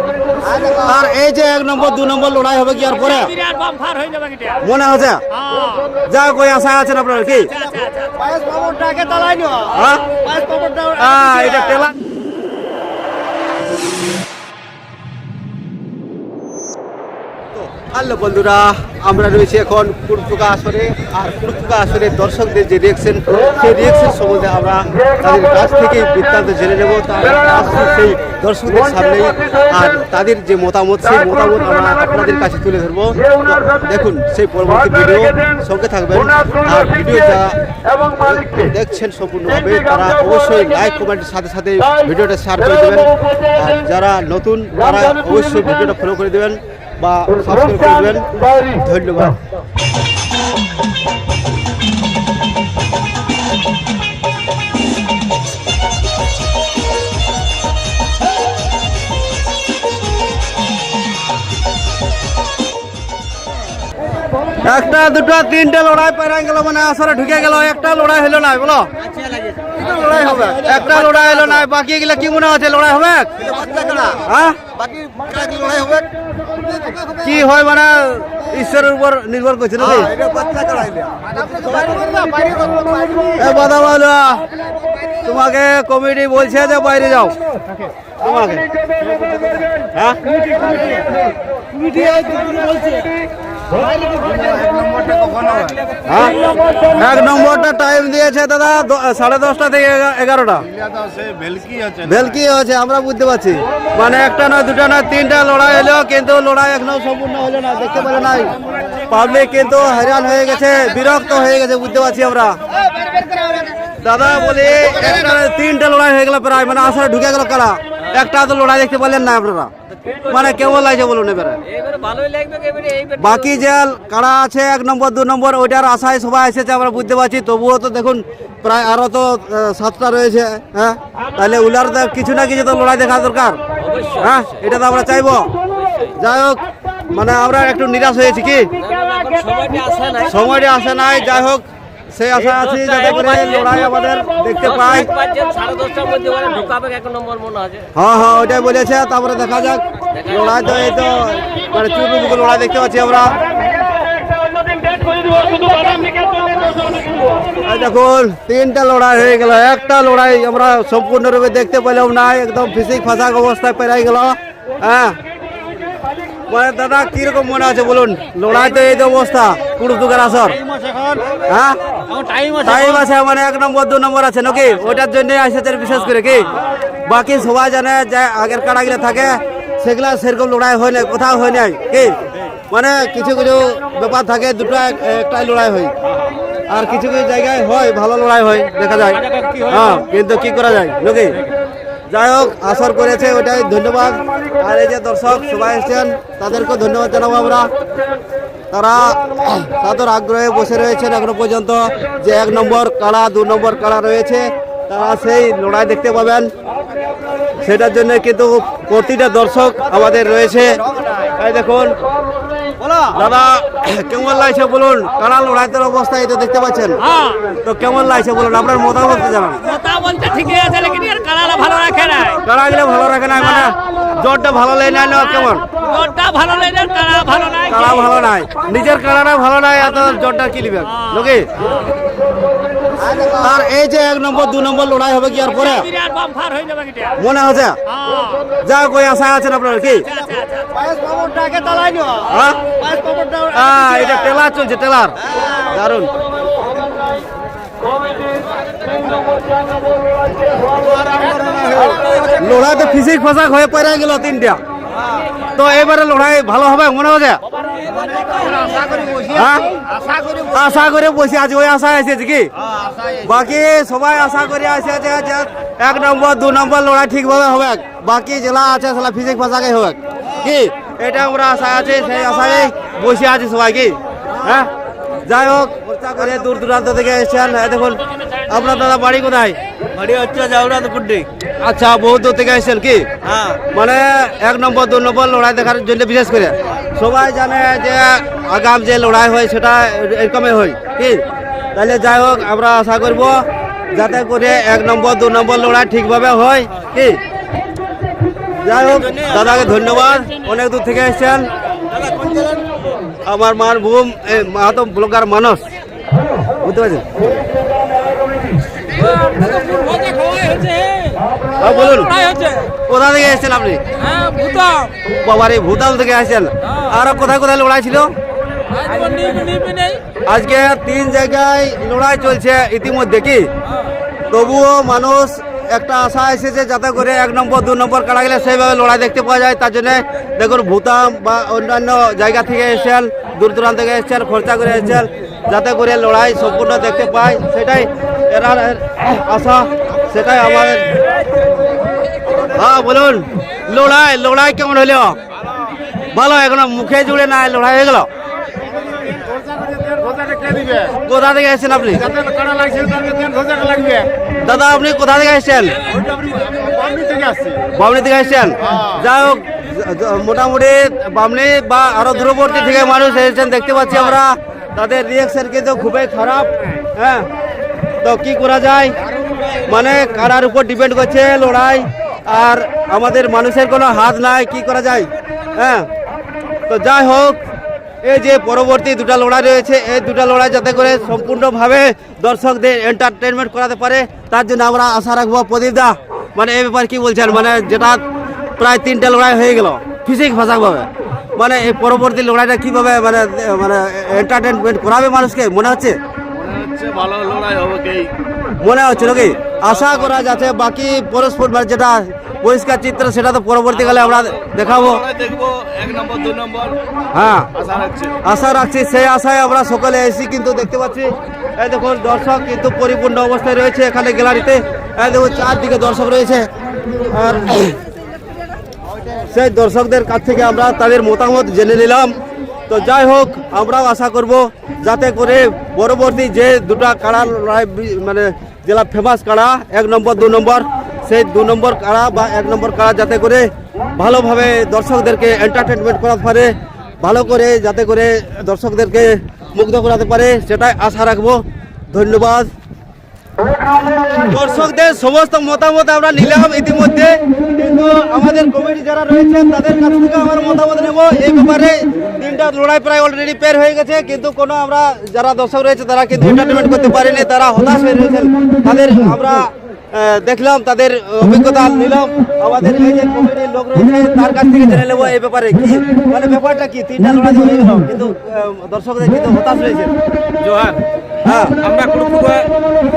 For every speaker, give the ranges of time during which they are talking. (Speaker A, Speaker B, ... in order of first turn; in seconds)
Speaker A: 0.4-0.9, 8.2-11.7, 69.6-70.9, 73.4-74.2, 74.8-76.1, 79.8-83.4, 89.1-89.6, 90.5-91.0, 91.9-92.9, 94.0-95.9, 100.8-102.2, 210.9-211.2, 212.8-213.1, 233.0-233.4, 240.7-244.3, 250.8-252.4, 258.0-260.5, 348.9-351.0, 352.0-354.1, 355.9-357.7, 358.6-359.0, 396.3-398.1, 399.7-400.1, 403.9-406.8, 407.6-408.2
Speaker B: 0.8-3.3, 4.6-5.2, 6.0-7.5, 9.7-10.1, 10.9-11.9, 17.6-49.4, 64.6-68.9, 70.5-73.3, 74.2-74.6, 77.2-80.1, 83.4-84.4, 85.2-87.3, 88.2-88.7, 96.1-96.4, 96.9-100.7, 102.0-108.5, 109.1-112.6, 114.0-119.7, 120.3-121.6, 123.2-133.6, 134.2-135.5, 136.2-136.6, 137.1-138.7, 140.2-145.1, 148.0-153.4, 157.6-165.2, 166.5-170.6, 171.5-171.8, 172.6-176.5, 177.1-182.2, 182.7-185.9, 186.7-191.4, 192.1-197.7, 198.7-206.5, 207.6-211.9, 213.1-217.0, 217.6-219.7, 222.4-225.7, 227.7-231.5, 233.3-235.9, 237.2-237.8, 238.6-240.1, 242.2-242.7, 243.5-246.1, 252.2-254.6, 255.6-257.4, 259.2-259.7, 260.4-262.5, 263.1-274.7, 275.2-283.1, 283.6-291.2, 291.7-293.4, 293.9-297.2, 298.6-301.5, 303.2-305.6, 306.6-307.2, 311.6-312.1, 312.9-313.8, 315.1-318.1, 320.3-323.4, 324.3-341.0, 342.4-345.2, 346.1-348.1, 351.0-352.1, 354.4-355.8, 357.7-367.3, 368.0-369.0, 369.6-375.9, 376.7-377.4, 378.0-388.0, 388.6-396.0, 398.6-405.0, 407.1-407.5, 408.2-416.5, 417.1-417.8, 419.3-422.2, 422.7-442.5, 444.2-469.9, 471.2-471.6
Speaker C: 3.0-4.6, 5.3-6.0, 7.5-8.2, 120.1-120.5, 121.7-123.4, 133.9-134.2, 138.8-140.3, 144.8-147.8, 155.5-156.0, 217.0-217.4, 219.6-222.4, 225.8-227.8, 235.5-237.2, 237.9-238.4, 240.1-240.7
Speaker D: 170.6-171.2, 172.1-172.8, 189.2-190.0, 308.9-311.2, 311.8-312.7, 314.0-314.9, 318.7-320.0, 470.4-470.8, 471.6-472.5